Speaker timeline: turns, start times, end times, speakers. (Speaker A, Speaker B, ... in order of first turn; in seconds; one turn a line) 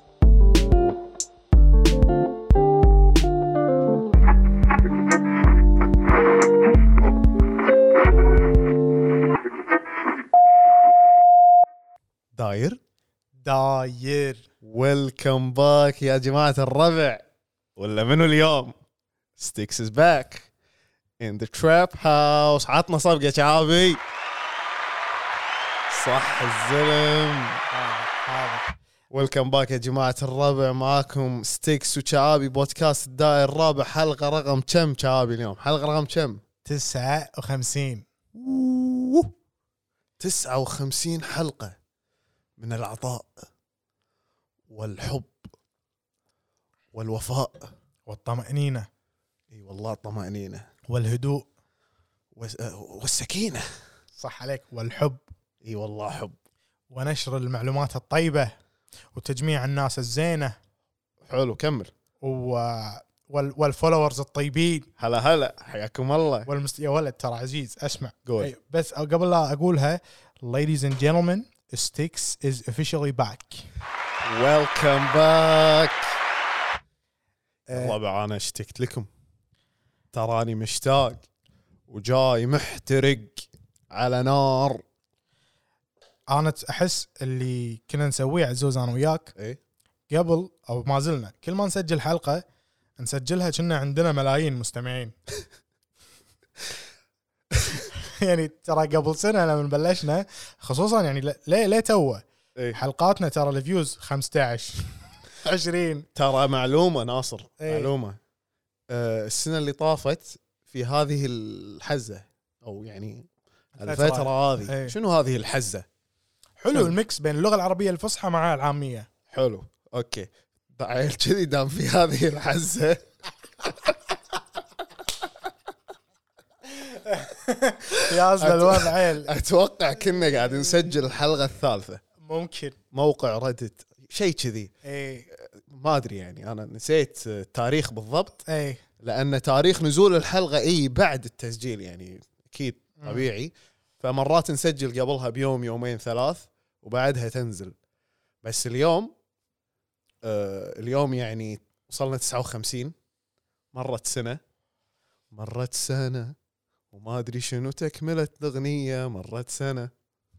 Speaker A: 12.3-12.8
Speaker B: 13.4-14.4
Speaker A: 14.6-17.2
Speaker A: 17.8-18.7
Speaker A: 19.4-20.5
Speaker A: 21.2-24.0
Speaker A: 25.9-27.6
Speaker B: 27.7-28.7
Speaker A: 29.1-36.4
Speaker B: 36.6-38.0
Speaker A: 38.3-39.3
Speaker A: 40.2-41.7
Speaker A: 42.6-43.3
Speaker A: 44.7-45.4
Speaker A: 46.9-47.7
Speaker B: 48.1-48.9
Speaker A: 49.5-50.6
Speaker B: 50.9-51.5
Speaker A: 52.3-53.6
Speaker B: 54.2-55.2
Speaker A: 55.6-56.3
Speaker B: 56.9-58.5
Speaker B: 59.1-60.5
Speaker A: 61.2-61.9
Speaker B: 62.2-64.9
Speaker A: 65.0-66.5
Speaker B: 66.5-73.6
Speaker A: 68.2-68.5
Speaker A: 74.2-76.1
Speaker B: 77.7-78.0
Speaker A: 77.7-79.1
Speaker A: 80.1-81.2
Speaker A: 81.9-84.8
Speaker B: 86.3-89.3
Speaker B: 90.1-92.4
Speaker B: 93.0-95.1
Speaker B: 97.7-106.1
Speaker A: 106.1-108.2
Speaker B: 107.6-107.9
Speaker A: 108.9-115.8
Speaker B: 113.8-115.0
Speaker B: 116.6-119.1
Speaker A: 119.3-123.0
Speaker A: 123.6-123.9
Speaker B: 126.8-129.3
Speaker A: 127.9-132.0
Speaker B: 132.2-132.8
Speaker A: 132.9-134.7
Speaker B: 134.8-135.2
Speaker A: 135.3-138.4
Speaker B: 138.4-138.8
Speaker A: 139.0-147.7
Speaker B: 143.0-143.3
Speaker A: 148.4-149.1
Speaker A: 150.2-152.9
Speaker A: 153.7-154.4
Speaker A: 155.3-156.3
Speaker A: 156.9-159.9